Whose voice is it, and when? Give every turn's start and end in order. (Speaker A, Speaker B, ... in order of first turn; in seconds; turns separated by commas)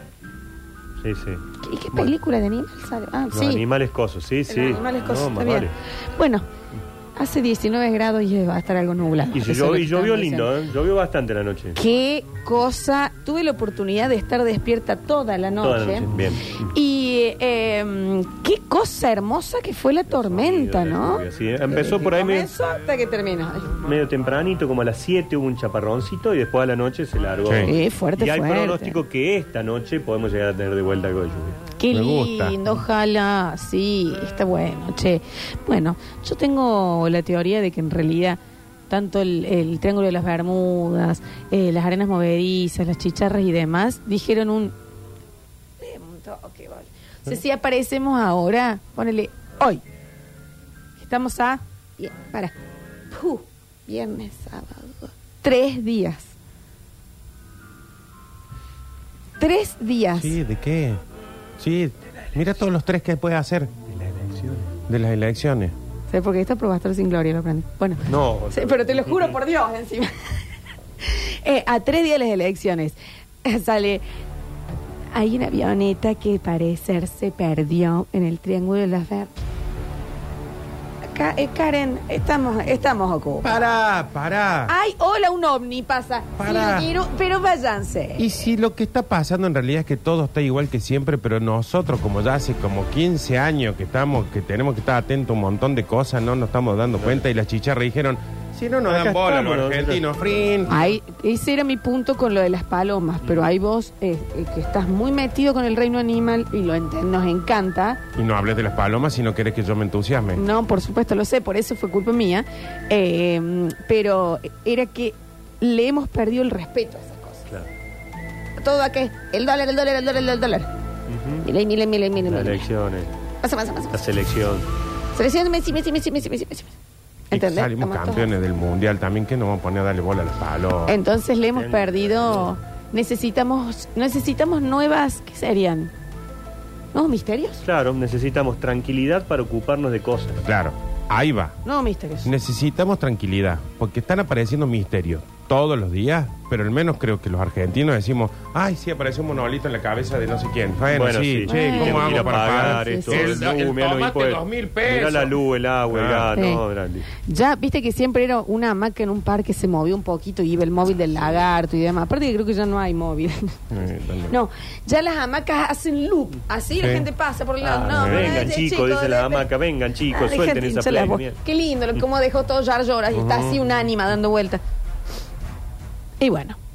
Speaker A: 1.0-2.1, Speaker B: 1.6-3.6, Speaker A: 3.3-5.8, Speaker B: 4.5-6.4, Speaker B: 7.2-10.5, Speaker A: 9.3-11.8, Speaker B: 11.8-23.8, Speaker A: 15.6-16.7, Speaker A: 20.1-22.5, Speaker A: 23.8-31.6, Speaker C: 27.4-27.7, Speaker B: 27.6-29.0, Speaker B: 31.8-44.8, Speaker C: 31.9-32.6, Speaker B: 45.8-49.8, Speaker B: 51.0-52.5, Speaker B: 53.1-56.3, Speaker B: 59.4-60.4, Speaker C: 60.2-61.0, Speaker C: 61.6-63.7, Speaker A: 63.9-64.8, Speaker C: 64.9-65.8, Speaker B: 66.1-70.1, Speaker A: 68.1-69.4, Speaker B: 71.0-74.0, Speaker B: 75.1-79.3, Speaker B: 81.1-83.6, Speaker C: 83.4-84.7, Speaker B: 84.7-88.4, Speaker C: 86.4-86.9, Speaker C: 88.2-100.9, Speaker A: 96.9-97.3, Speaker A: 98.9-100.1, Speaker B: 100.7-108.0, Speaker A: 103.2-103.5, Speaker C: 108.2-110.4, Speaker B: 110.3-117.5, Speaker B: 118.6-120.7, Speaker A: 121.1-121.5, Speaker B: 121.4-122.6, Speaker A: 122.3-123.2, Speaker B: 123.4-124.1, Speaker A: 123.9-124.7, Speaker B: 125.1-126.8, Speaker C: 127.3-131.0, Speaker B: 127.3-128.3, Speaker B: 130.9-135.9, Speaker A: 131.5-132.5, Speaker B: 136.9-137.6, Speaker A: 137.6-140.4, Speaker C: 140.4-141.6, Speaker B: 141.7-142.3, Speaker C: 142.2-156.4, Speaker A: 150.9-157.1, Speaker B: 151.5-153.4, Speaker B: 156.3-156.6, Speaker B: 157.2-163.6, Speaker C: 163.7-164.4, Speaker B: 164.3-169.5, Speaker C: 166.8-167.1, Speaker A: 167.6-171.4, Speaker C: 167.9-168.5, Speaker B: 170.1-174.6, Speaker C: 173.1-173.6, Speaker B: 176.2-176.6